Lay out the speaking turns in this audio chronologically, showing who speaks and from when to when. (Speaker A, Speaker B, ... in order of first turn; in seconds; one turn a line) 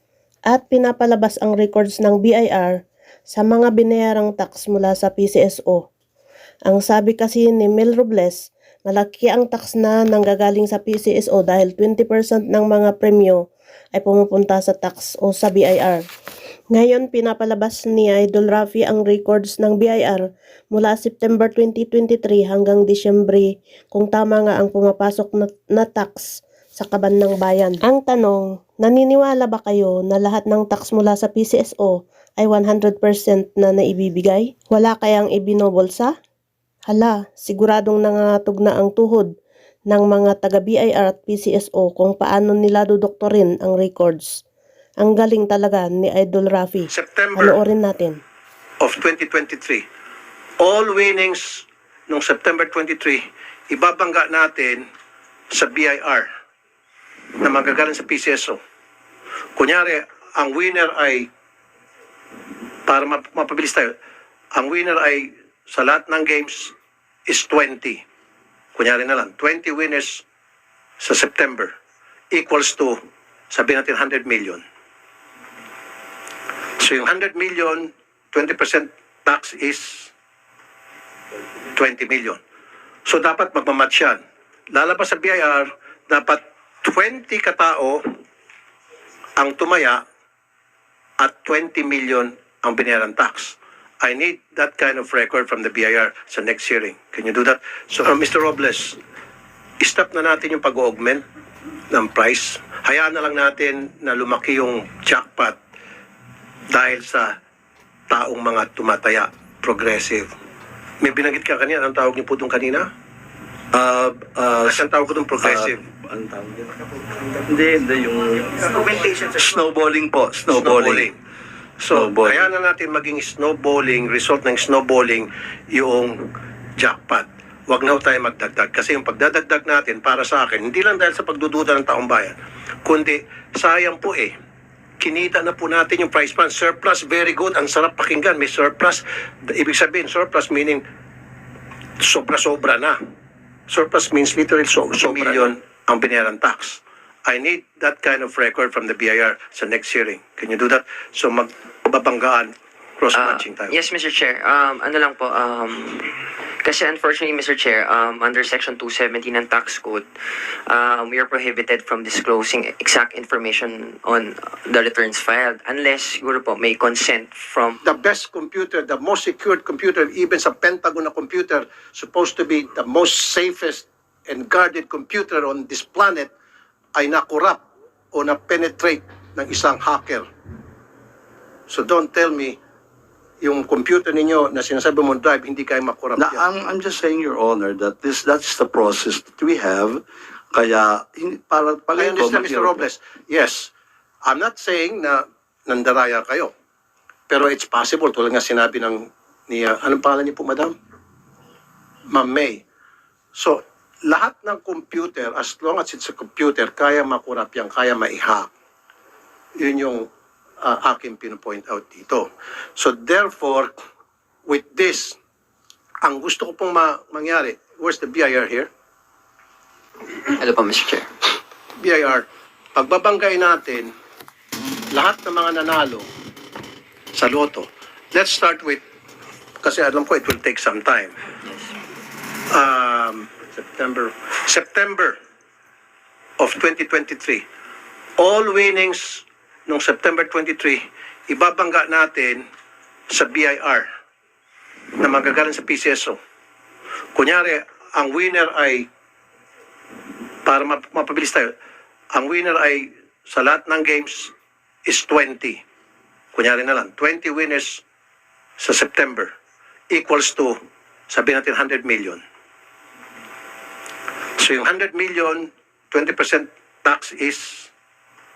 Speaker A: 0.5-5.9
Speaker A: 6.7-16.1
Speaker A: 16.7-36.1
Speaker A: 36.9-39.3
Speaker A: 39.9-44.4
Speaker A: 45.0-48.2
Speaker B: 46.9-47.6
Speaker B: 48.8-49.8
Speaker B: 50.6-54.8
Speaker B: 55.5-56.3
Speaker B: 57.4-58.6
Speaker B: 59.6-61.3
Speaker B: 62.9-63.9
Speaker B: 64.5-66.7
Speaker B: 67.3-68.0
Speaker B: 68.8-70.2
Speaker B: 71.0-71.7
Speaker B: 72.3-73.0
Speaker B: 73.5-74.6
Speaker B: 76.8-80.1
Speaker B: 81.8-82.4
Speaker B: 83.1-84.2
Speaker B: 84.7-88.0
Speaker B: 89.4-90.0
Speaker B: 91.2-99.0
Speaker B: 99.8-101.2
Speaker B: 101.9-105.6
Speaker B: 106.7-107.3
Speaker B: 108.1-110.3
Speaker B: 111.0-112.9
Speaker C: 113.7-121.1
Speaker B: 114.6-115.8
Speaker B: 120.5-121.2
Speaker B: 121.8-126.2
Speaker C: 121.9-122.5
Speaker B: 126.8-134.3
Speaker B: 135.0-140.8
Speaker B: 142.0-143.0
Speaker B: 143.7-153.7
Speaker D: 153.1-160.1
Speaker D: 160.7-167.8
Speaker B: 167.8-176.3
Speaker B: 176.9-177.6
Speaker B: 178.1-180.3
Speaker B: 181.7-182.6
Speaker B: 183.4-186.4
Speaker C: 186.2-190.0
Speaker C: 190.5-192.9
Speaker B: 192.0-193.7
Speaker B: 194.3-196.5
Speaker B: 197.3-200.7
Speaker B: 202.1-202.6
Speaker B: 203.3-208.5
Speaker B: 209.6-210.1
Speaker B: 210.6-213.7
Speaker B: 214.5-215.2
Speaker B: 216.0-218.7
Speaker D: 220.2-221.1
Speaker B: 221.8-223.9
Speaker B: 224.9-226.1
Speaker B: 227.2-228.8
Speaker B: 229.6-231.2
Speaker B: 232.5-235.2
Speaker B: 236.4-237.4
Speaker B: 238.2-242.4
Speaker B: 243.1-243.8
Speaker B: 245.0-246.2
Speaker B: 247.2-248.9
Speaker B: 250.5-251.5
Speaker B: 252.1-254.3
Speaker B: 254.9-255.6
Speaker B: 256.3-257.8
Speaker B: 258.6-259.3
Speaker B: 259.9-260.6
Speaker B: 261.1-262.2
Speaker B: 264.4-267.7